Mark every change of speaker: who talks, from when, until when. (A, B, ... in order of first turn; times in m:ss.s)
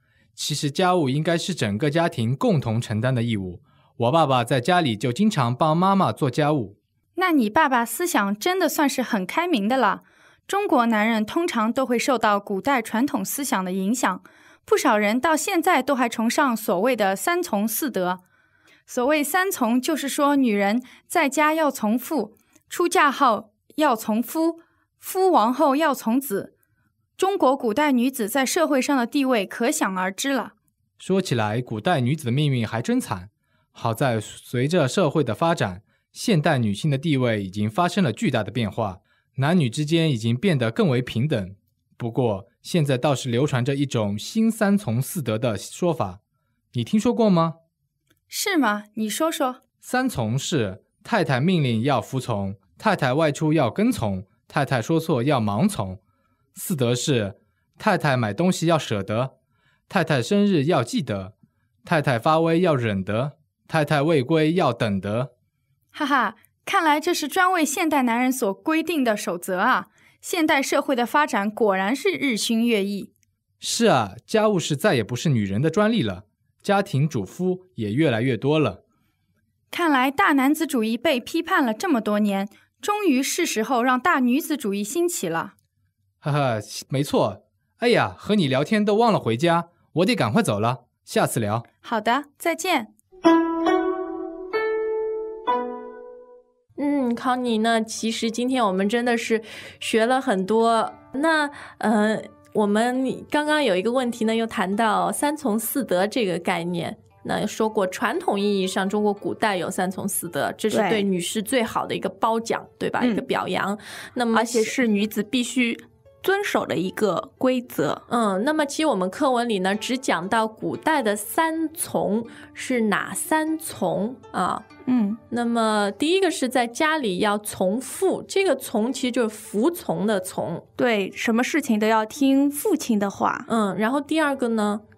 0:00.3-0:06.8 A
0:07.2-0:18.2 B
0:18.9-0:26.5 B
0:27.2-0:30.5 B
0:31.0-0:46.2 A
0:46.7-0:47.6 A
0:48.3-0:49.6 B
0:49.8-0:56.0 A
0:56.5-0:59.3 A
0:59.9-1:01.3 A
1:01.8-1:05.3 A
1:05.9-1:13.1 B
1:13.6-1:18.8 A
1:19.7-1:25.5 B
1:26.2-1:31.6 A
1:31.8-1:32.9 B
1:36.8-1:54.8 C
1:50.7-1:51.1 D
1:53.0-1:53.2 D
1:54.3-1:58.0 D
1:58.1-2:04.6 C
2:04.8-2:05.2 D
2:05.3-2:10.6 C
2:10.8-2:13.5 D
2:13.5-2:14.8 C